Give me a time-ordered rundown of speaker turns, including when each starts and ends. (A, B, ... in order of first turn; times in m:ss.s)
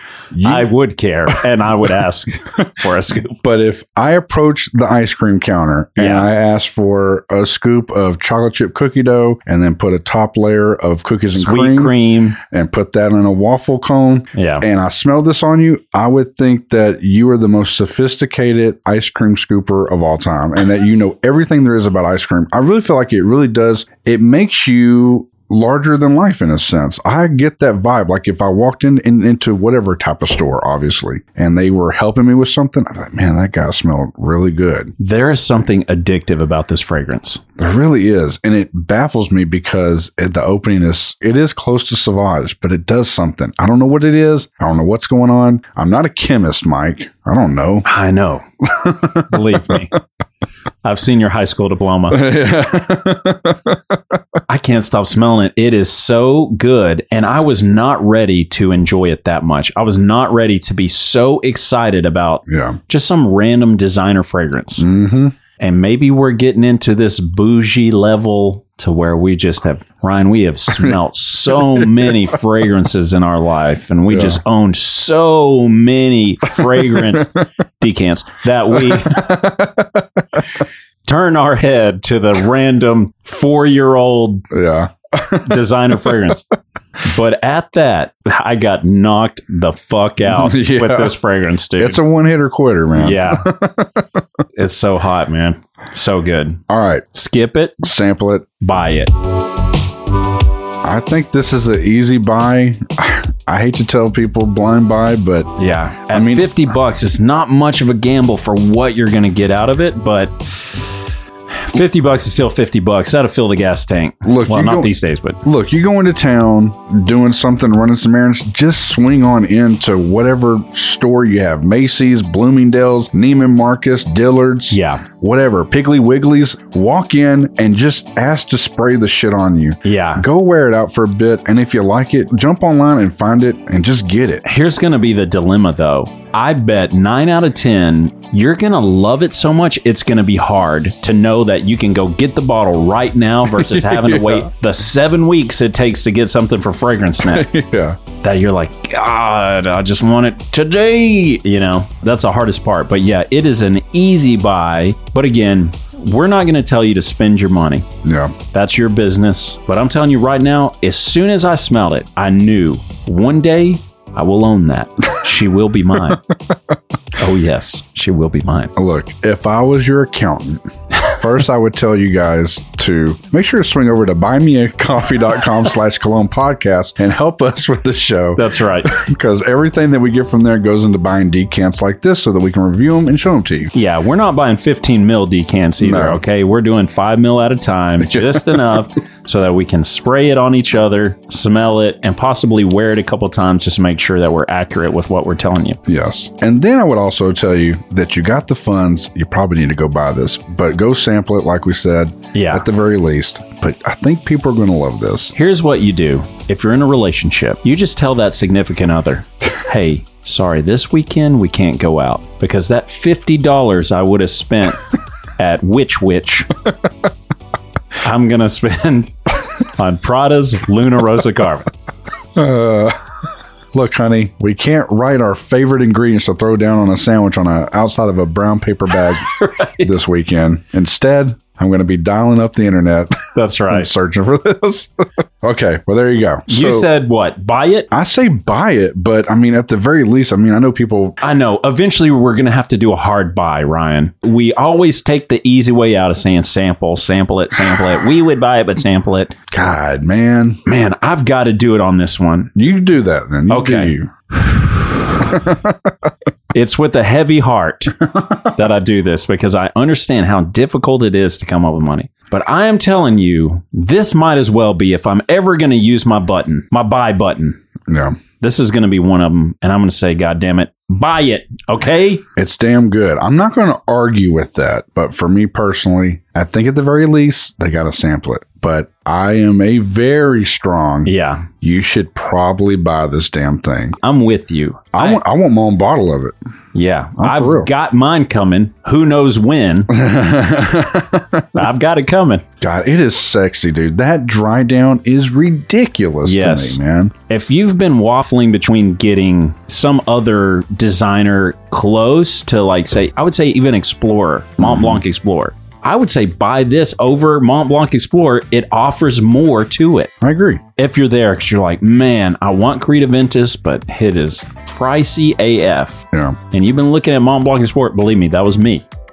0:00.3-0:00.7 A
0:00.4-0:03.4 B
0:03.4-0:34.9 A
0:06.0-0:06.3 B
0:11.3-0:12.4 B
0:14.3-0:14.6 B
0:35.0-0:37.4 B
0:37.6-0:47.9 A
0:47.8-0:50.0 B
0:48.6-0:49.8 A
0:50.8-0:52.3 B
0:52.1-0:54.2 A
0:54.5-1:04.9 B
1:02.5-1:02.8 A
1:04.8-1:05.3 A
1:05.6-1:19.4 B
1:11.5-1:12.2 A
1:14.1-1:14.4 A
1:16.6-1:17.2 A
1:18.8-1:20.4 A
1:21.0-1:24.5 B
1:24.5-1:25.7 A
1:25.4-1:26.4 B
1:27.0-1:32.0 B
1:30.2-1:31.2 A
1:31.8-1:34.2 A
1:33.0-1:33.5 B
1:34.6-1:36.6 B
1:36.7-1:37.0 A
1:37.1-1:37.8 B
1:37.8-1:38.5 A
1:38.6-1:39.1 B
1:40.8-1:45.5 A
1:45.6-1:51.0 B
1:46.1-1:46.7 A
1:51.5-1:55.4 B
1:54.2-1:54.9 A
1:55.4-2:14.4 A
2:04.7-2:05.0 B
2:09.8-2:10.3 B
2:14.4-2:27.5 B
2:23.5-2:24.5 A
2:27.2-2:28.0 A
2:28.2-2:37.9 B
2:38.0-2:38.4 A
2:38.5-2:46.2 B
2:47.2-2:48.7 B
2:48.8-3:03.7 A
2:58.4-2:58.9 B
3:03.7-3:15.8 B
3:05.8-3:06.2 A
3:08.0-3:08.8 A
3:15.9-3:25.3 A
3:22.3-3:22.6 B
3:25.3-3:34.8 B
3:35.4-3:36.5 B
3:38.0-3:41.7 B
3:42.4-3:43.0 A
3:43.7-3:56.9 A
3:49.2-3:50.0 B
3:53.4-3:53.9 B
3:56.5-3:57.9 B
3:57.9-4:01.2 A
4:01.2-4:09.4 B
4:09.5-4:10.6 A
4:10.6-4:12.5 B
4:12.5-4:14.1 A
4:13.5-4:15.4 B
4:15.2-4:16.1 A
4:16.5-4:27.6 B
4:27.9-4:28.2 A
4:28.4-4:32.2 B
4:32.4-4:44.0 A
4:41.0-4:41.5 B
4:44.0-4:45.2 B
4:44.9-4:46.4 A
4:46.7-4:49.9 B
4:47.2-4:47.7 A
4:49.9-4:51.6 A
4:51.5-4:52.4 B
4:52.6-4:57.1 A
4:56.2-5:10.1 B
5:04.6-5:05.0 A
5:10.2-5:10.6 A
5:10.8-5:18.8 B
5:16.1-5:16.4 A